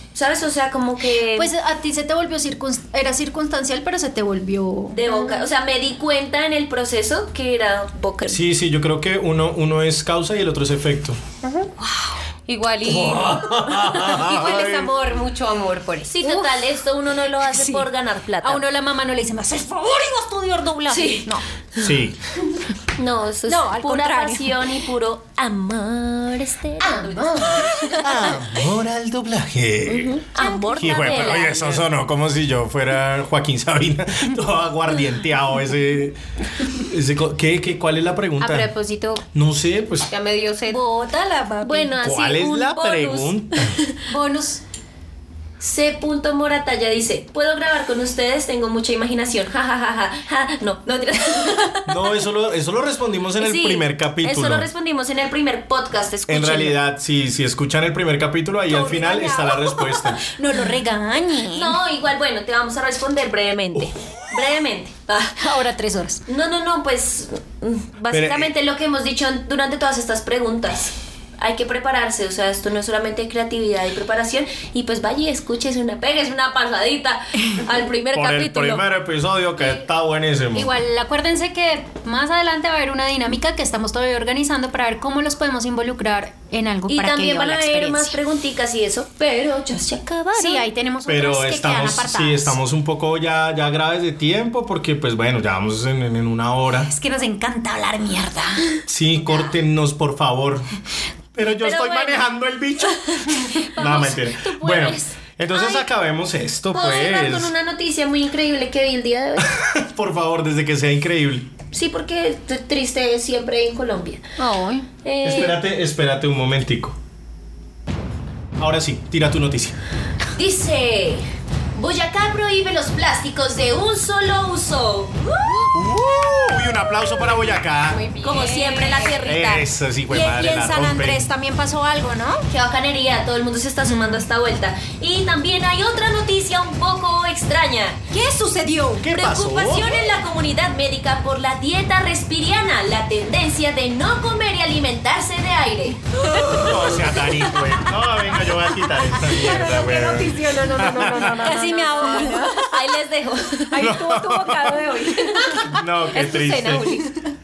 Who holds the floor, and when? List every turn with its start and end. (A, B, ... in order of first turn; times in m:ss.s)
0:00.1-0:01.5 A
0:01.4-0:05.0 B
0:04.9-0:08.4 A
0:05.1-0:05.4 C
0:08.3-0:11.2 D
0:11.4-0:11.7 C
0:11.8-0:12.2 B
0:12.5-0:13.7 C
0:12.8-0:14.9 D
0:13.8-0:15.2 B
0:14.3-0:16.2 C
0:16.1-0:18.6 A
0:17.5-0:17.9 B
0:18.4-0:21.4 B
0:20.9-0:21.9 A
0:21.8-0:22.2 D
0:23.0-0:28.3 A
0:23.5-0:24.7 B
0:26.8-0:28.0 C
0:28.0-0:38.7 D
0:29.9-0:31.9 A
0:30.4-0:31.0 B
0:38.4-0:39.2 C
0:39.3-0:40.1 D
0:40.1-0:40.8 C
0:40.7-0:42.0 B
0:41.6-0:44.0 A
0:42.0-0:43.8 D
0:44.1-0:44.6 B
0:45.6-0:52.1 A
0:51.9-0:54.7 D
0:53.4-0:56.8 A
0:56.3-1:00.3 D
0:58.7-1:01.8 B
1:01.5-1:05.4 A
1:05.4-1:06.2 B
1:06.3-1:18.8 A
1:08.1-1:08.5 D
1:18.1-1:20.7 D
1:20.5-1:28.2 B
1:26.9-1:30.7 A
1:30.4-1:32.6 B
1:31.1-1:36.9 D
1:36.8-1:39.5 B
1:38.9-1:40.7 D
1:41.4-1:47.5 D
1:41.6-1:42.3 A
1:43.4-1:45.8 B
1:46.7-1:49.6 A
1:49.4-1:51.5 D
1:51.7-1:54.2 A
1:54.4-1:54.9 B
1:55.0-1:55.6 A
1:55.2-1:57.0 D
1:58.6-1:59.8 D
2:00.3-2:05.7 A
2:05.7-2:08.0 D
2:07.9-2:09.2 C
2:08.2-2:09.6 A
2:09.2-2:11.3 D
2:10.1-2:12.5 B
2:12.5-2:18.0 A
2:13.8-2:14.3 B
2:18.1-2:19.1 B
2:19.0-2:20.1 D
2:19.1-2:26.1 A
2:26.2-2:27.7 B
2:26.3-2:31.6 D
2:29.2-2:29.7 B
2:29.3-2:32.6 C
2:31.1-2:32.8 B
2:32.5-2:34.0 A
2:33.8-2:34.9 D
2:33.8-2:35.7 B
2:33.8-2:37.2 C
2:35.6-2:37.0 D